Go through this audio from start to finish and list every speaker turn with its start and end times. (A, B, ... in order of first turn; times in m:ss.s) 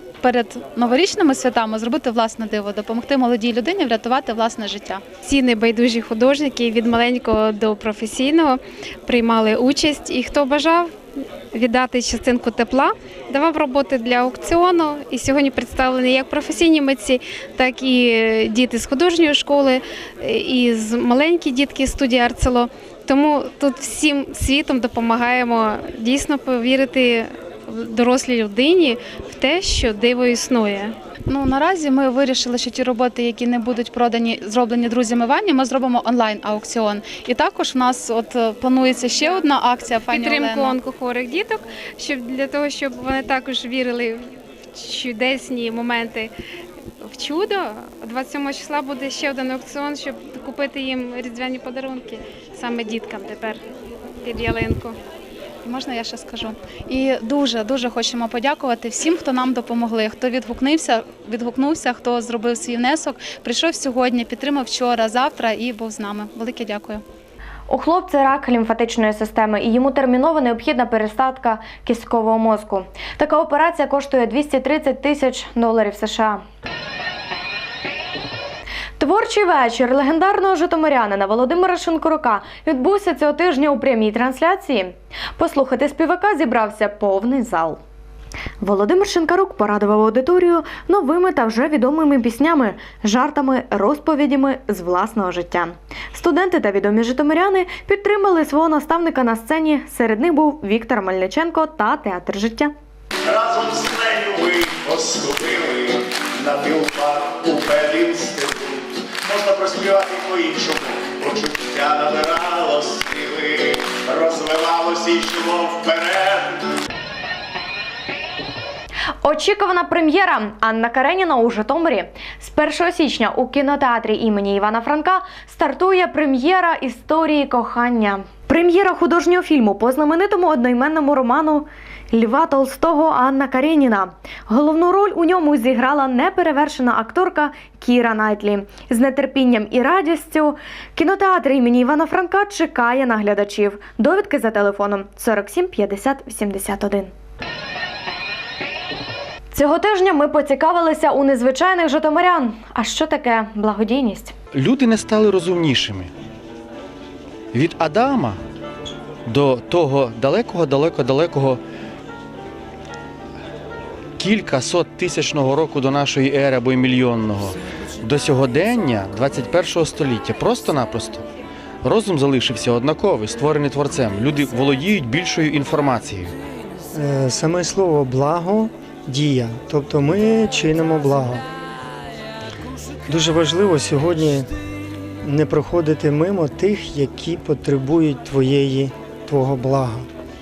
0:00.2-0:05.1 A
0:05.2-0:10.9 B
0:11.5-0:30.9 B
0:31.3-0:40.8 A
0:40.1-0:46.3 B
0:47.0-0:53.6 B
0:54.2-0:55.0 B
0:55.6-1:07.0 A
1:07.7-1:16.4 C
1:19.0-1:27.8 C
1:28.6-1:42.7 C
1:43.2-1:56.6 D
1:59.2-2:27.1 C
2:29.5-2:34.3 C
2:34.5-2:36.1 E
2:37.5-2:38.4 E
2:39.2-2:41.6 E
2:44.2-2:51.2 E
2:51.8-2:56.4 E
2:56.9-3:01.4 F
3:03.1-3:04.5 F
3:05.2-3:10.1 F